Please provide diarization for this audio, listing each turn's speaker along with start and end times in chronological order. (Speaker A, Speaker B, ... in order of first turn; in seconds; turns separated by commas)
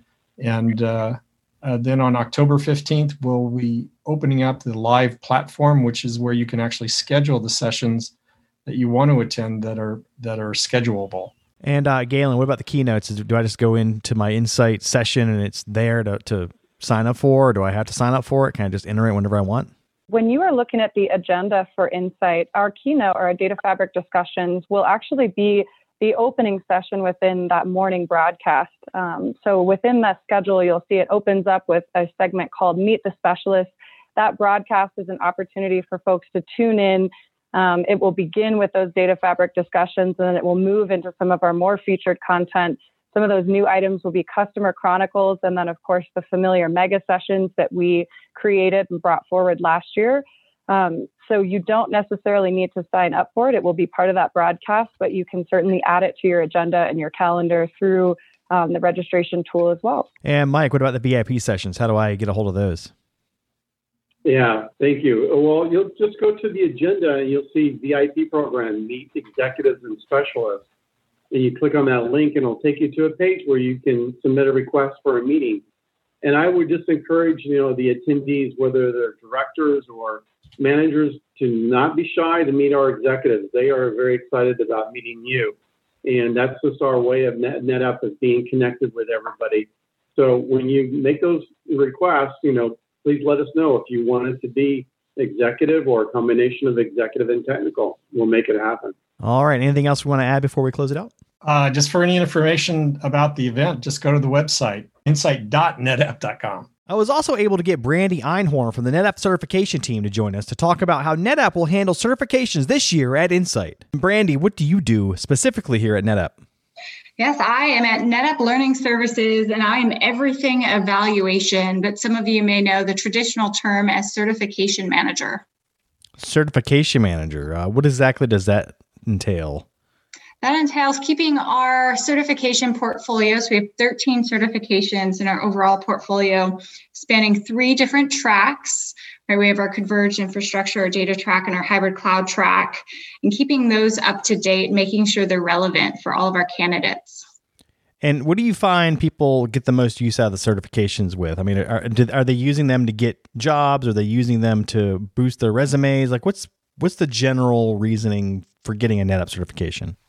Speaker A: 0.4-8.1, Speaker A: 8.7-11.3, Speaker B: 11.6-19.7, Speaker C: 20.1-60.1, Speaker B: 60.2-62.9, Speaker D: 64.2-70.6, Speaker D: 71.3-75.6, Speaker D: 76.2-98.9, Speaker B: 99.2-101.1, Speaker A: 101.4-106.7, Speaker B: 106.9-116.3, Speaker E: 117.2-125.4, Speaker B: 126.2-129.6, Speaker E: 130.4-147.2, Speaker B: 148.0-159.9